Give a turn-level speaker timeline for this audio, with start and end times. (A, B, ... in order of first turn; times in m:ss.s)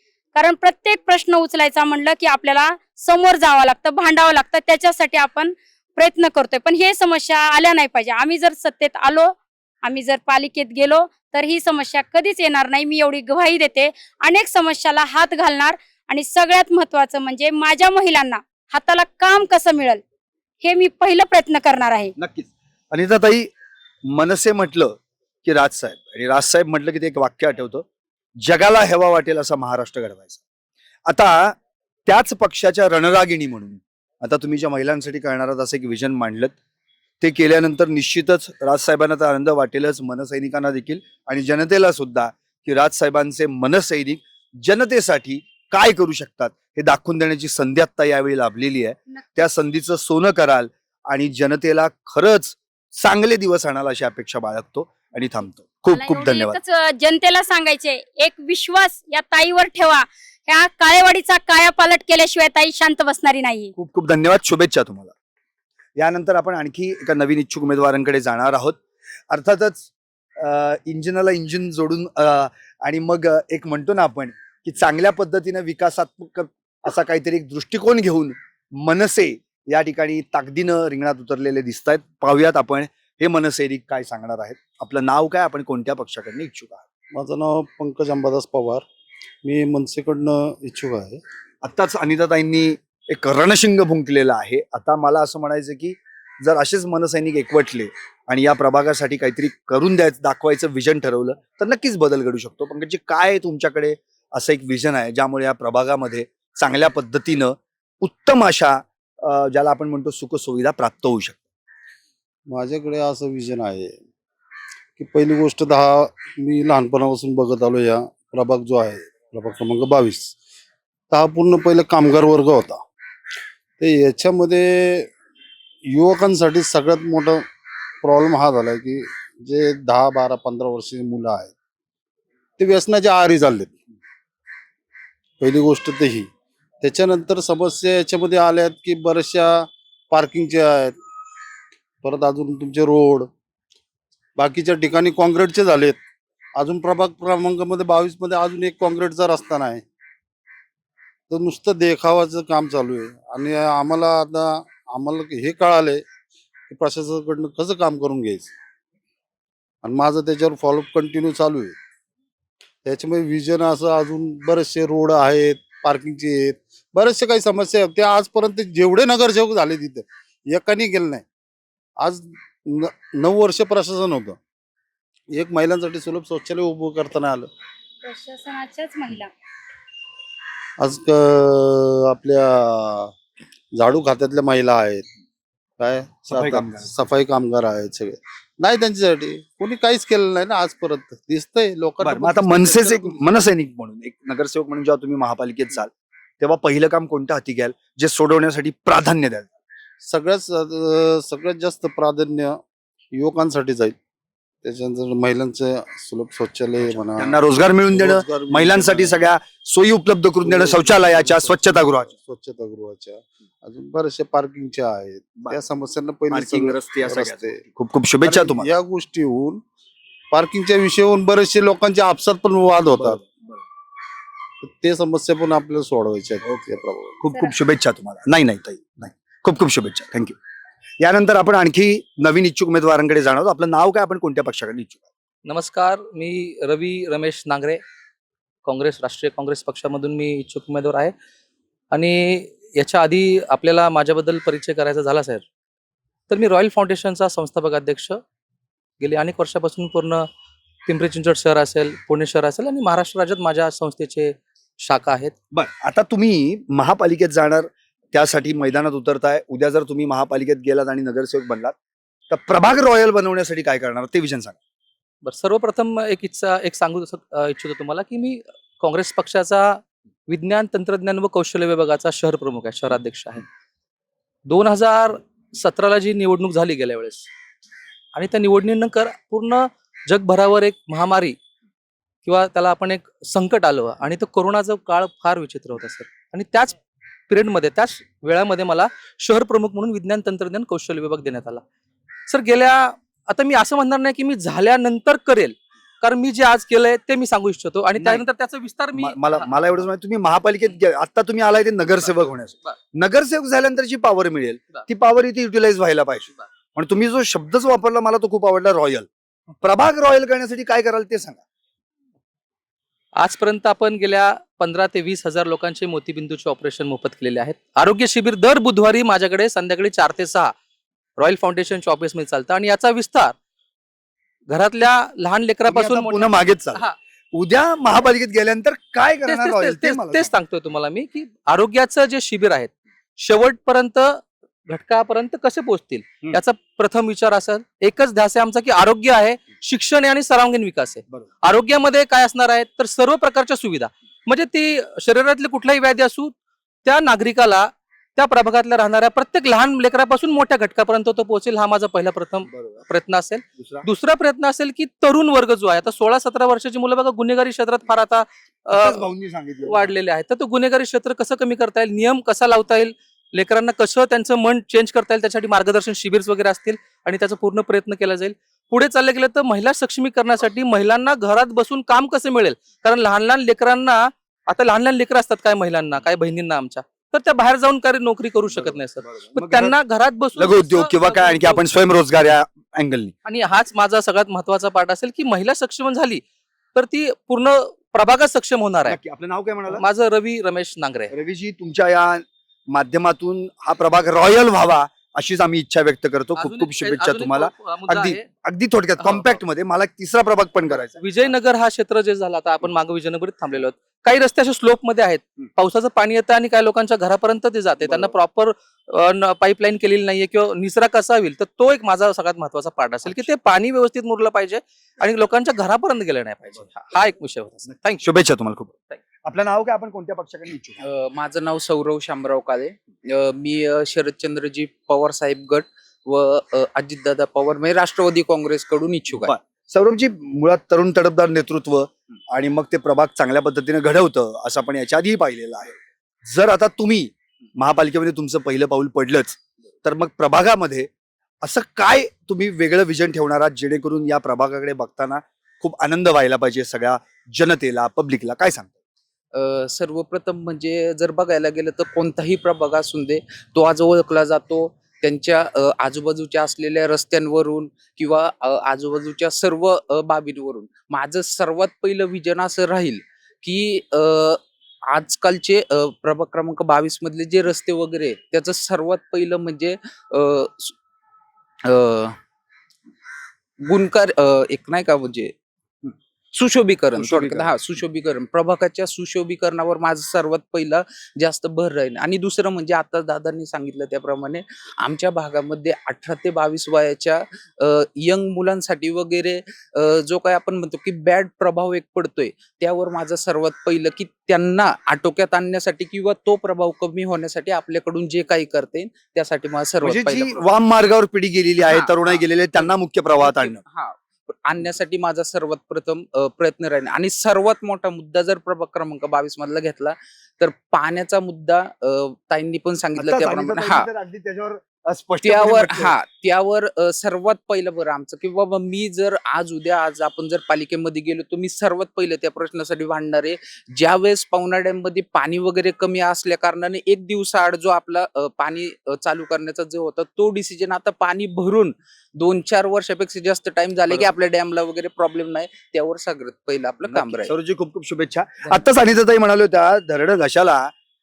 0:00.3-0:20.0 A
0:20.6-0:22.1 A
0:22.2-0:23.5 B
0:24.0-0:27.8 B
0:28.4-0:30.4 B
0:31.0-0:36.5 B
0:37.2-0:56.6 B
0:55.9-1:03.7 A
1:03.8-1:05.1 B
1:06.0-1:08.8 B
1:09.3-1:26.8 B
1:27.1-1:28.8 C
1:29.4-1:31.2 C
1:31.6-1:51.4 B
1:52.5-1:54.0 C
1:55.0-2:00.4 C
2:01.1-2:02.8 C
2:03.8-2:05.1 C
2:05.8-2:07.4 C
2:08.0-2:11.5 C
2:12.6-2:13.8 C
2:15.4-2:16.3 C
2:16.8-2:21.0 C
2:22.0-2:23.3 C
2:24.4-2:26.0 C
2:26.6-2:29.8 C
2:31.3-2:36.0 C
2:36.7-2:38.5 C
2:39.8-2:41.8 C
2:42.8-2:51.2 C
2:52.0-2:54.4 C
2:55.3-2:57.5 C
2:58.0-2:59.3 A
3:00.8-3:03.1 C
3:03.7-3:05.1 C
3:05.8-3:13.2 C
3:06.3-3:06.9 B
3:12.0-3:19.5 B
3:20.0-3:22.6 C
3:23.1-3:24.0 C
3:24.6-3:27.4 C
3:26.9-3:32.1 B
3:27.9-3:29.2 C
3:30.4-3:37.6 C
3:36.3-3:38.7 B
3:38.2-3:39.6 C
3:40.3-3:43.2 C
3:42.9-3:43.2 B
3:44.6-3:47.2 C
3:47.2-3:50.3 B
3:51.0-3:55.0 B
3:55.4-3:57.8 D
3:58.6-4:01.1 D
4:01.9-4:05.4 D
4:06.3-4:08.2 D
4:09.0-4:10.3 D
4:10.8-4:15.3 D
4:15.5-4:21.7 B
4:22.3-4:24.6 B
4:25.2-4:33.4 D
4:34.4-4:37.3 D
4:38.1-4:41.4 D
4:42.2-4:46.8 D
4:47.3-4:51.6 D
4:52.3-4:59.5 D
4:58.0-4:58.2 B
4:58.9-5:09.1 B
5:09.6-5:11.4 B
5:13.2-5:20.5 D
5:21.2-5:23.4 D
5:24.5-5:27.0 D
5:25.7-5:30.3 B
5:29.2-5:59.1 D
5:52.5-5:52.8 B
5:53.6-5:53.8 B
5:58.7-5:59.9 B
5:59.6-6:21.6 D
6:18.6-6:19.7 B
6:20.4-6:23.1 B
6:23.2-6:26.2 D
6:26.7-6:29.0 D
6:28.8-6:29.8 B
6:29.7-6:31.1 D
6:31.1-6:41.0 B
6:36.4-6:38.3 D
6:39.0-6:39.4 D
6:40.9-6:58.0 D
6:53.0-6:53.3 B
6:58.0-7:00.8 B
7:00.8-7:09.3 E
7:09.1-7:20.9 B
7:21.4-7:28.7 B
7:29.3-7:50.7 E
7:51.6-7:52.2 E
7:53.6-7:55.3 E
7:55.8-8:20.4 E
7:57.0-7:57.6 B
8:19.8-8:23.6 B
8:21.6-8:22.2 E
8:23.2-8:33.9 E
8:33.0-8:35.9 B
8:35.2-8:57.3 E
8:56.9-9:00.7 B